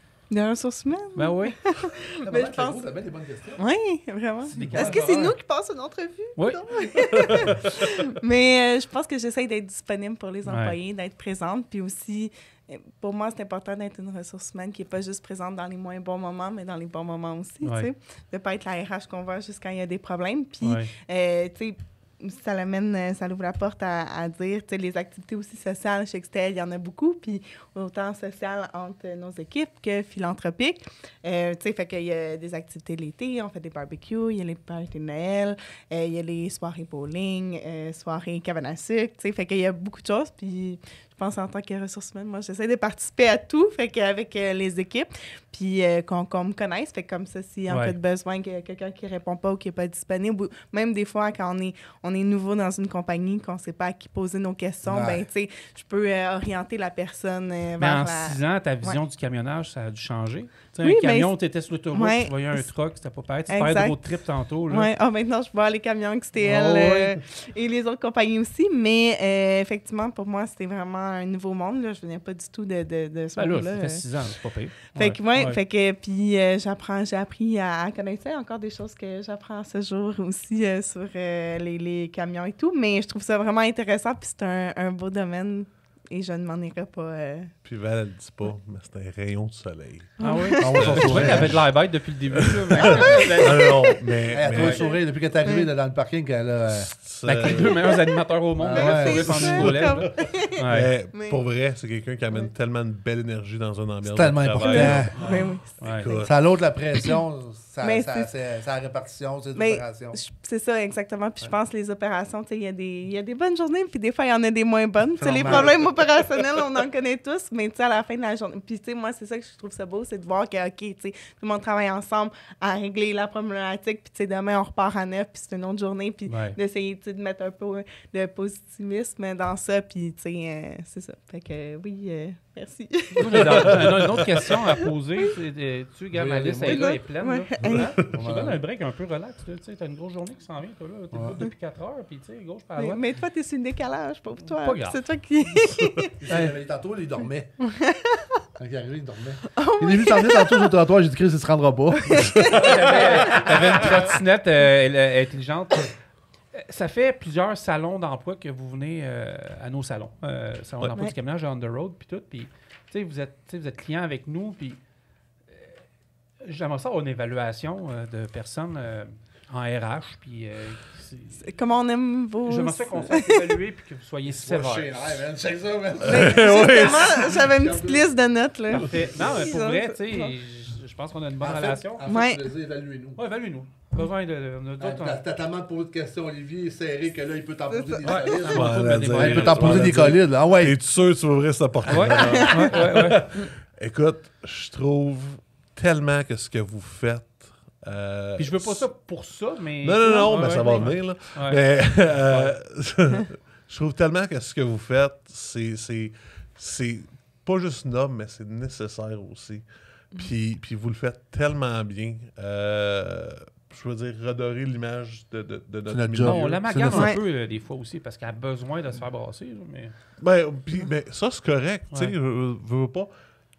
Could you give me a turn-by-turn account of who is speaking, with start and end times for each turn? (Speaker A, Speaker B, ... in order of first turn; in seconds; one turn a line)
Speaker A: 0.3-2.9
Speaker B: 1.1-1.6
Speaker C: 2.2-3.6
Speaker A: 3.5-59.0
Speaker C: 4.4-5.1
Speaker B: 4.5-5.3
Speaker B: 6.3-6.6
Speaker B: 10.4-10.8
Speaker B: 17.6-17.9
Speaker B: 20.6-20.9
Speaker B: 47.7-48.0
Speaker C: 54.9-55.2
Speaker B: 57.8-64.9
Speaker A: 60.8-62.7
Speaker A: 63.5-64.0
Speaker A: 64.7-74.0
Speaker B: 66.4-67.1
Speaker B: 73.3-75.6
Speaker A: 74.9-87.5
Speaker D: 87.6-91.7
Speaker A: 90.2-90.8
Speaker B: 90.2-93.7
Speaker C: 90.6-91.6
Speaker D: 92.3-94.8
Speaker A: 92.8-93.7
Speaker C: 94.3-96.9
Speaker B: 94.5-94.8
Speaker A: 94.6-95.7
Speaker D: 96.7-97.8
Speaker B: 97.2-100.9
Speaker A: 97.5-97.9
Speaker C: 98.6-99.7
Speaker A: 98.7-100.6
Speaker D: 99.0-106.3
Speaker A: 101.1-101.4
Speaker C: 104.0-105.2
Speaker A: 104.6-106.3
Speaker B: 105.2-106.1
Speaker C: 106.2-110.2
Speaker A: 107.8-108.3
Speaker A: 109.5-134.6
Speaker C: 115.2-115.8
Speaker B: 126.3-126.6
Speaker B: 133.2-143.0
Speaker D: 133.3-134.3
Speaker C: 136.1-137.0
Speaker A: 136.6-137.9
Speaker C: 138.1-138.6
Speaker C: 141.1-141.4
Speaker A: 142.8-146.1
Speaker B: 144.5-145.0
Speaker C: 146.2-147.5
Speaker A: 147.6-148.2
Speaker C: 148.6-152.3
Speaker A: 149.6-150.7
Speaker A: 152.1-154.0
Speaker D: 152.4-153.4
Speaker B: 152.5-155.9
Speaker B: 156.5-164.8
Speaker B: 166.4-171.4
Speaker A: 171.4-173.5
Speaker B: 172.4-175.2
Speaker C: 174.2-178.1
Speaker D: 176.0-177.4
Speaker A: 176.1-180.3
Speaker B: 178.7-182.0
Speaker C: 181.4-183.2
Speaker A: 182.1-182.4
Speaker B: 183.2-185.2
Speaker C: 184.8-190.8
Speaker A: 187.7-188.0
Speaker B: 188.0-190.0
Speaker D: 188.5-198.9
Speaker B: 191.9-193.3
Speaker C: 191.9-192.5
Speaker A: 192.2-192.6
Speaker B: 198.4-202.5
Speaker D: 199.8-216.7
Speaker A: 200.0-200.9
Speaker C: 215.9-217.2
Speaker B: 216.2-219.9
Speaker A: 216.9-217.2
Speaker D: 220.2-223.1